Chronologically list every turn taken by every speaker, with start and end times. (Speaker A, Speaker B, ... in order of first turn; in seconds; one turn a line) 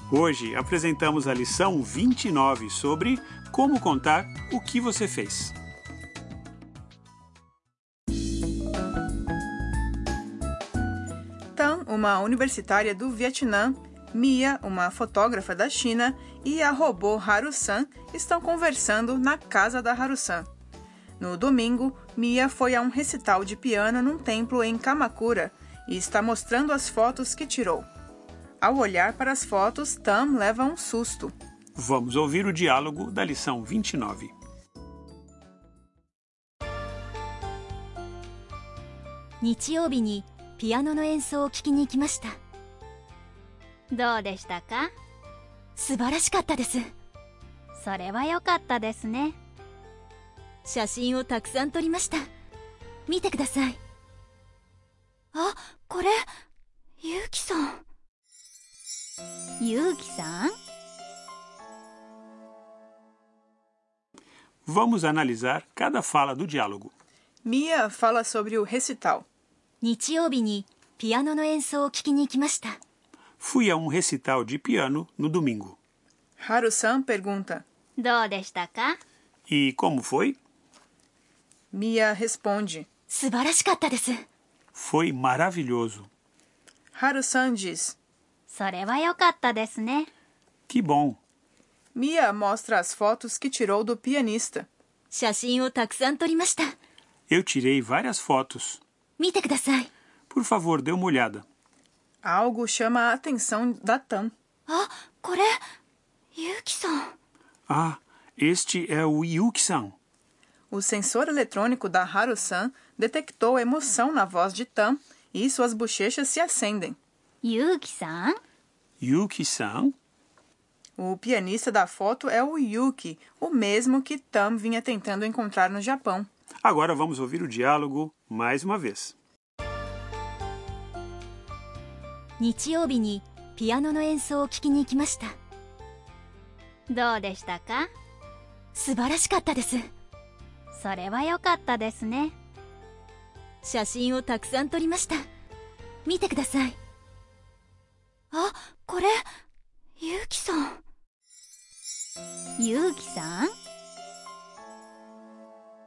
Speaker A: 0.1-5.5
Speaker B: 11.6-20.5
Speaker B: 21.2-27.9
Speaker B: 28.6-31.3
Speaker A: 31.8-34.3
Speaker C: 39.4-42.3
Speaker D: 43.9-44.9
Speaker C: 45.8-46.8
Speaker D: 47.7-49.4
Speaker C: 50.6-52.2
Speaker C: 53.1-53.8
Speaker C: 55.3-56.2
Speaker C: 57.0-57.8
Speaker C: 59.6-60.5
Speaker A: 64.7-66.9
Speaker B: 67.4-69.2
Speaker C: 69.8-72.8
Speaker A: 73.4-75.8
Speaker B: 76.4-77.6
Speaker D: 78.0-79.0
Speaker A: 79.5-80.4
Speaker B: 81.7-82.9
Speaker C: 83.1-84.2
Speaker A: 84.7-86.1
Speaker B: 86.9-88.0
Speaker D: 88.5-90.1
Speaker A: 90.7-91.2
Speaker B: 91.9-94.7
Speaker C: 95.1-96.7
Speaker A: 97.3-98.8
Speaker C: 99.2-99.9
Speaker A: 100.3-101.4
Speaker B: 102.2-104.3
Speaker C: 104.7-105.6
Speaker C: 106.3-107.1
Speaker A: 107.7-110.0
Speaker B: 110.7-117.0
Speaker D: 117.4-118.4
Speaker A: 119.0-119.9
Speaker B: 121.0-126.3
Speaker A: 126.6-129.2
Speaker C: 132.4-135.3
Speaker D: 136.9-137.9
Speaker C: 138.7-139.8
Speaker D: 140.7-142.3
Speaker C: 143.6-145.2
Speaker C: 146.1-146.8
Speaker C: 148.3-149.2
Speaker C: 150.0-150.8
Speaker D: 152.6-153.5